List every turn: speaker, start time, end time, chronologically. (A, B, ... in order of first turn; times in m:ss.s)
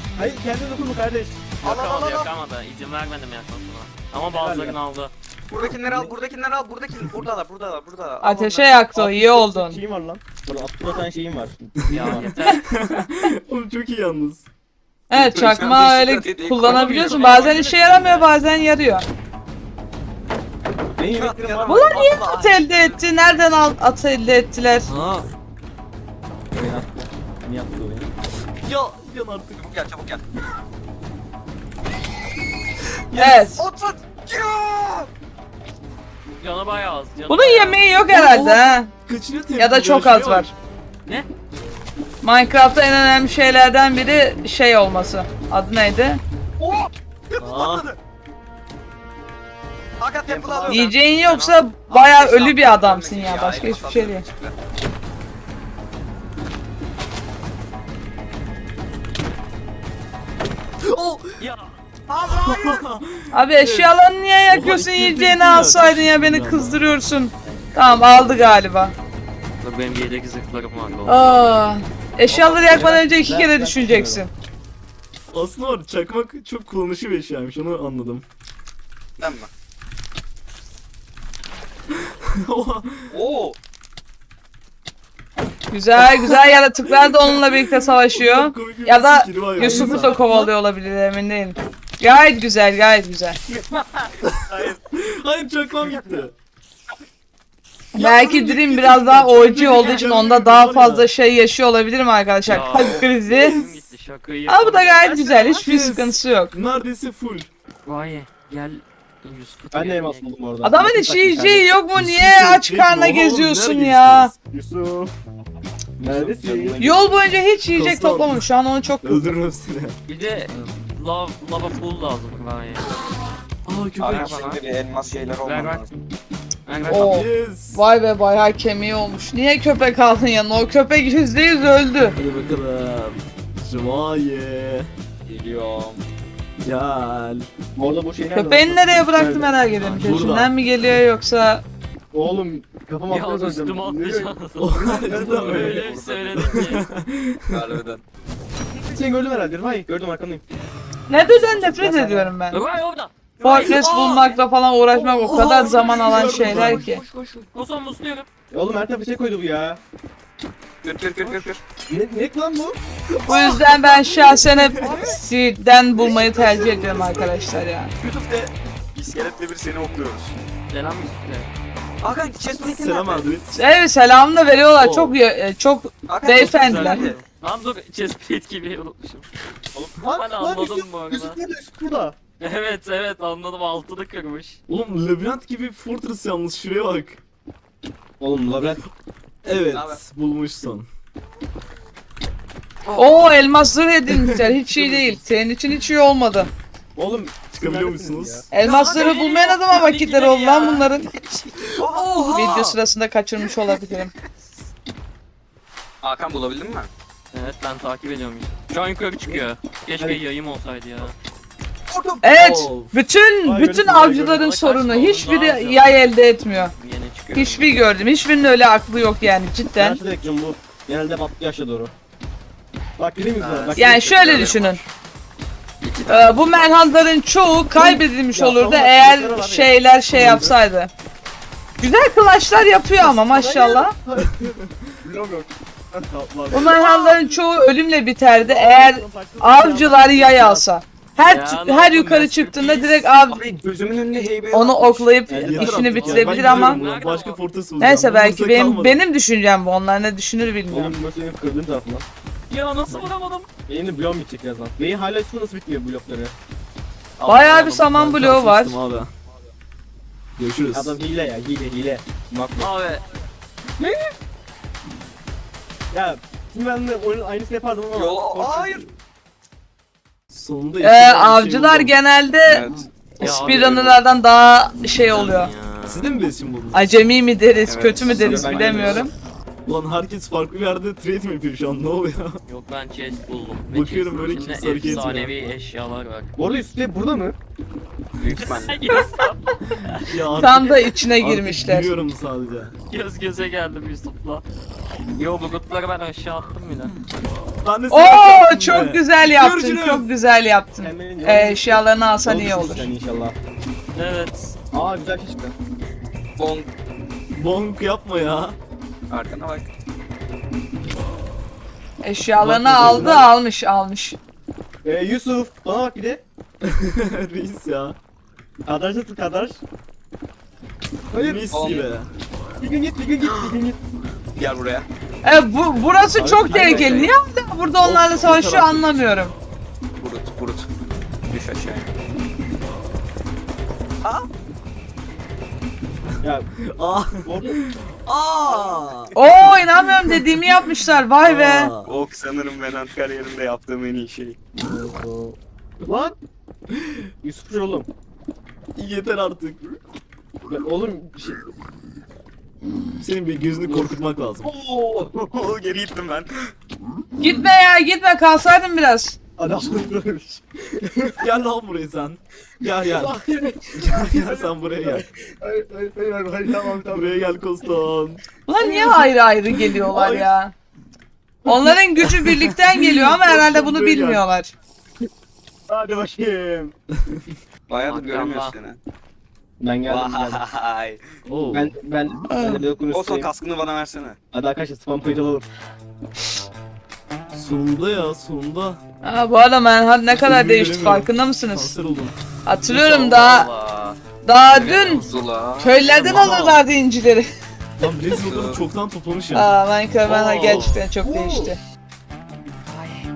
0:00.2-0:01.6 A
0:01.6-0:02.3 B
0:01.6-0:05.1 C
0:04.3-0:04.8 A
0:05.5-0:08.7 B
0:05.9-0:06.1 A
0:08.2-0:09.8 D
0:08.9-0:12.3 A
0:11.9-0:12.7 C
0:12.0-0:14.4 E
0:15.1-0:19.1 D
0:15.1-0:17.6 B
0:16.6-0:18.3 C
0:21.0-0:22.1 A
0:21.0-0:22.9 B
0:21.7-0:24.9 D
0:24.9-0:25.3 E
0:26.5-0:28.1 A
0:28.6-0:29.7 E
0:29.6-0:30.2 B
0:33.1-0:33.6 D
0:33.3-0:35.1 B
0:36.4-0:37.8 C
0:37.3-0:38.9 D
0:38.1-0:40.5 E
0:39.6-0:40.5 D
0:42.2-0:46.2 D
0:46.6-0:48.0 B
0:47.4-0:47.9 E
0:50.0-0:50.9 B
0:50.3-0:50.8 A
0:50.6-0:51.6 C
0:50.7-0:54.2 D
0:51.9-0:54.6 B
1:00.8-1:01.4 E
1:01.4-1:01.7 C
1:02.1-1:02.8 B
1:02.3-1:03.9 E
1:03.3-1:09.0 D
1:04.5-1:06.8 E
1:09.6-1:11.4 C
1:11.1-1:14.3 D
1:12.3-1:13.0 B
1:12.7-1:14.2 A
1:15.3-1:18.2 E
1:19.2-1:19.5 B
1:21.9-1:23.1 E
1:23.1-1:23.6 B
1:25.7-1:33.4 D
1:26.0-1:30.2 E
1:29.6-1:30.5 A
1:33.5-1:34.8 B
1:34.2-1:36.3 E
1:35.8-1:36.2 B
1:37.9-1:43.6 D
1:38.0-1:41.1 E
1:42.4-1:45.1 C
1:44.5-1:46.6 D
1:45.4-1:47.5 E
1:47.8-1:50.3 C
1:49.7-1:51.7 A
1:50.6-1:54.3 D
1:51.9-1:54.3 E
1:54.5-1:55.1 A
1:56.0-1:56.9 A
1:56.0-1:57.0 B
1:56.8-1:59.4 D
1:57.7-1:58.5 E
1:59.0-2:00.0 E
2:00.1-2:03.0 C
2:03.6-2:04.4 E
2:04.0-2:05.9 B
2:04.0-2:04.6 C
2:05.4-2:05.9 C
2:06.7-2:07.1 C
2:06.9-2:12.2 D
2:06.9-2:07.8 E
2:12.2-2:14.9 E
2:15.3-2:16.0 B
2:16.6-2:17.5 E
2:17.8-2:19.6 A
2:18.3-2:21.6 D
2:20.0-2:20.5 E
2:22.1-2:25.8 A
2:23.1-2:26.8 C
2:24.6-2:27.7 E
2:25.0-2:26.8 B
2:27.5-2:28.0 B
2:28.9-2:30.4 A
2:31.1-2:32.6 D
2:31.5-2:32.3 A
2:32.5-2:34.4 C
2:33.4-2:37.0 D
2:34.9-2:37.3 E
2:36.2-2:38.3 C
2:38.5-2:39.8 A
2:40.8-2:41.6 B
2:41.9-2:42.8 A
2:43.2-2:45.0 E
2:43.3-2:47.9 D
2:44.8-2:45.1 A
2:44.8-2:45.2 B
2:46.0-2:47.5 A
2:46.9-2:47.3 B
2:48.0-2:50.4 B
2:50.7-2:51.5 C
2:52.0-2:53.3 B
2:52.6-2:53.6 E
2:53.5-2:57.1 D
2:54.8-2:55.2 E
2:56.1-2:57.2 B
2:56.3-2:59.3 C
2:59.7-3:02.2 A
3:00.1-3:01.4 C
3:02.4-3:04.6 C
3:04.7-3:07.2 E
3:08.2-3:08.8 A
3:09.4-3:10.9 E
3:09.7-3:10.0 B
3:12.9-3:13.2 B
3:13.0-3:16.5 D
3:14.1-3:15.2 E
3:17.0-3:18.5 A
3:17.5-3:18.5 E
3:18.5-3:21.1 D
3:18.6-3:22.3 B
3:21.7-3:22.8 E
3:22.3-3:24.1 D
3:23.7-3:24.0 B
3:26.0-3:26.9 B
3:27.3-3:31.1 C
3:31.9-3:32.4 B
3:32.2-3:36.7 D
3:32.3-3:33.0 E
3:33.4-3:34.4 A
3:34.3-3:36.0 C
3:36.7-3:37.8 C
3:37.3-3:40.0 D
3:39.7-3:41.9 A
3:43.0-3:44.6 A
3:43.4-3:44.9 B
3:43.8-3:44.8 D
3:45.8-3:46.9 B
3:46.1-3:50.9 D
3:47.7-3:49.8 A
3:50.1-3:50.5 E
3:51.8-3:53.9 D
3:53.0-3:56.8 A
3:56.5-4:03.4 D
3:56.7-3:57.2 B
3:58.4-4:00.6 A
4:01.2-4:03.1 C
4:03.2-4:05.2 B
4:04.5-4:06.8 D
4:05.3-4:06.7 A
4:05.4-4:09.0 E
4:06.5-4:07.4 C
4:07.8-4:11.0 D
4:10.7-4:12.1 A
4:12.5-4:13.5 C
4:13.7-4:16.3 A
4:17.2-4:17.9 C
4:17.3-4:18.8 D
4:17.8-4:19.1 E
4:20.4-4:21.0 E
4:20.7-4:22.7 A
4:22.6-4:23.0 C
4:23.8-4:24.1 A
4:25.9-4:28.8 A
4:27.9-4:28.8 B
4:30.3-4:31.9 E
4:30.8-4:35.5 D
4:32.5-4:33.4 B
4:33.2-4:34.0 C
4:35.0-4:36.1 C
4:35.8-4:36.9 E
4:36.7-4:39.1 D
4:37.7-4:39.1 B
4:38.0-4:39.1 A
4:39.7-4:42.4 E
4:42.5-4:46.3 C
4:43.7-4:45.5 E
4:46.4-4:47.4 A
4:48.1-4:48.9 B
4:48.4-4:50.2 C
4:50.0-4:52.8 E
4:50.3-4:51.9 D
4:52.9-4:54.4 C
4:55.2-4:56.9 C
4:57.6-5:00.1 E
4:57.9-5:02.9 D
5:00.8-5:03.4 A
5:03.9-5:04.6 C
5:04.7-5:05.6 A
5:06.4-5:06.7 B
5:07.3-5:08.6 E
5:09.1-5:09.7 B
5:12.0-5:14.2 D
5:12.4-5:13.3 E
5:14.8-5:16.2 A
5:16.6-5:18.0 E
5:18.6-5:19.6 A
5:21.1-5:21.5 A
5:21.2-5:22.1 E
5:21.5-5:21.9 B
5:22.6-5:23.8 A
5:24.4-5:24.9 B
5:25.2-5:29.3 D
5:26.2-5:27.1 A
5:27.8-5:28.9 E
5:30.0-5:30.7 B
5:31.3-5:31.9 B
5:36.2-5:36.5 A
5:36.6-5:39.1 E
5:37.2-5:37.6 A
5:38.5-5:38.9 B
5:39.2-5:41.7 D
5:41.2-5:41.9 E
5:41.8-5:44.4 B
5:44.6-5:46.2 A
5:46.7-5:47.1 E
5:47.2-5:47.9 A
5:48.8-5:49.6 E
5:50.5-5:51.4 A
5:53.0-5:54.5 E
5:53.7-5:53.9 A
5:54.4-5:56.3 B
5:57.2-5:59.2 D
5:59.4-6:01.2 A
6:01.2-6:03.1 E
6:02.9-6:07.5 A
6:03.8-6:05.0 E
6:06.8-6:08.2 E
6:08.5-6:10.5 D
6:08.6-6:09.0 A
6:09.6-6:10.3 E
6:11.4-6:14.5 D
6:11.5-6:14.2 E
6:15.7-6:16.7 A
6:17.7-6:18.8 B
6:17.9-6:18.6 C
6:19.6-6:20.4 A
6:19.9-6:21.0 B
6:21.2-6:21.8 E
6:21.5-6:23.3 A
6:22.3-6:22.6 D
6:22.9-6:24.2 B
6:24.3-6:25.4 A
6:27.3-6:28.8 E
6:29.0-6:31.8 D
6:30.2-6:32.2 E
6:32.4-6:33.5 D
6:32.7-6:34.0 C
6:34.2-6:37.3 D
6:34.5-6:35.1 C
6:34.7-6:36.3 B
6:35.9-6:36.6 E
6:37.8-6:39.5 E
6:38.1-6:38.6 B
6:39.3-6:41.6 D
6:40.1-6:40.8 C
6:41.0-6:41.5 A